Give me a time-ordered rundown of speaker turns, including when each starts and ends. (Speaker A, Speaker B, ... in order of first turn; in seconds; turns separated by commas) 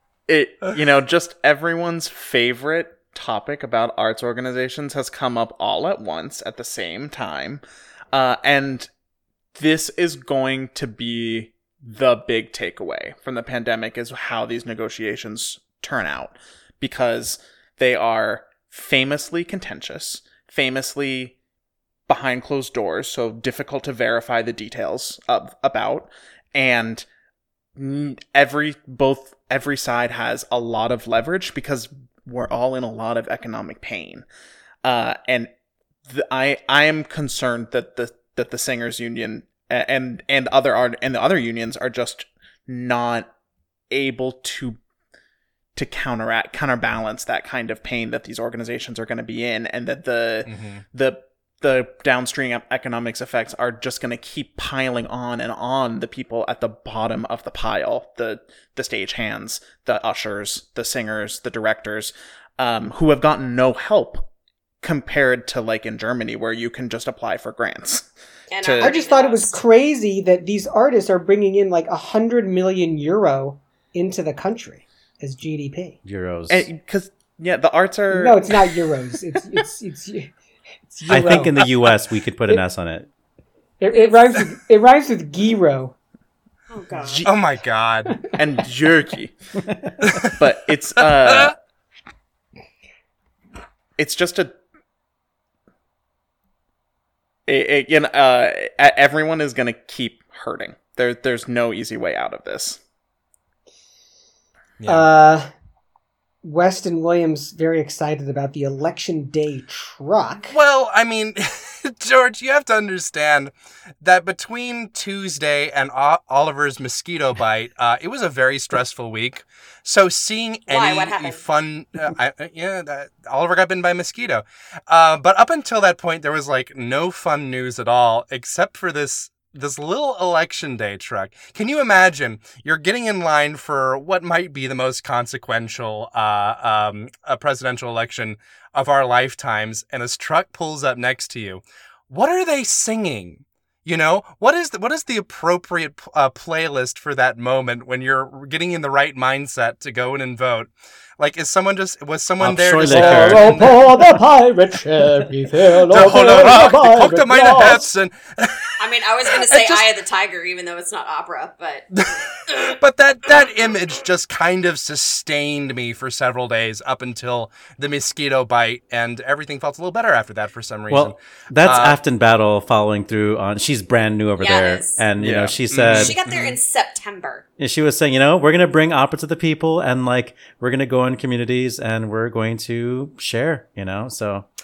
Speaker A: 0.3-7.6, Speaker A: 8.1-8.9, Speaker A: 9.5-21.4, Speaker A: 22.1-27.1, Speaker A: 27.8-34.2, Speaker A: 34.8-35.5, Speaker A: 36.1-43.3, Speaker A: 43.9-44.8, Speaker A: 45.7-64.3, Speaker B: 50.5-50.8, Speaker A: 64.8-68.1, Speaker C: 68.5-69.6, Speaker A: 68.6-68.9, Speaker D: 68.8-76.0, Speaker E: 76.0-76.7, Speaker A: 76.5-78.4, Speaker D: 78.1-80.3, Speaker D: 80.9-81.9, Speaker E: 81.1-83.1, Speaker D: 83.8-85.9, Speaker C: 86.7-87.2, Speaker A: 87.0-87.3, Speaker B: 87.2-88.2, Speaker A: 88.3-89.3, Speaker A: 90.4-91.5, Speaker A: 94.0-94.5, Speaker A: 97.5-102.8, Speaker B: 104.8-105.0, Speaker D: 104.9-105.5, Speaker D: 106.4-110.5, Speaker B: 110.5-153.7, Speaker C: 120.7-121.4, Speaker E: 152.4-153.6, Speaker D: 152.9-157.9, Speaker B: 155.9-158.7, Speaker C: 158.8-161.9, Speaker B: 159.4-159.8, Speaker B: 161.9-172.0, Speaker E: 170.9-176.2, Speaker C: 174.4-175.0, Speaker A: 175.2-175.6, Speaker B: 175.7-176.6, Speaker C: 175.9-177.4, Speaker E: 177.6-184.5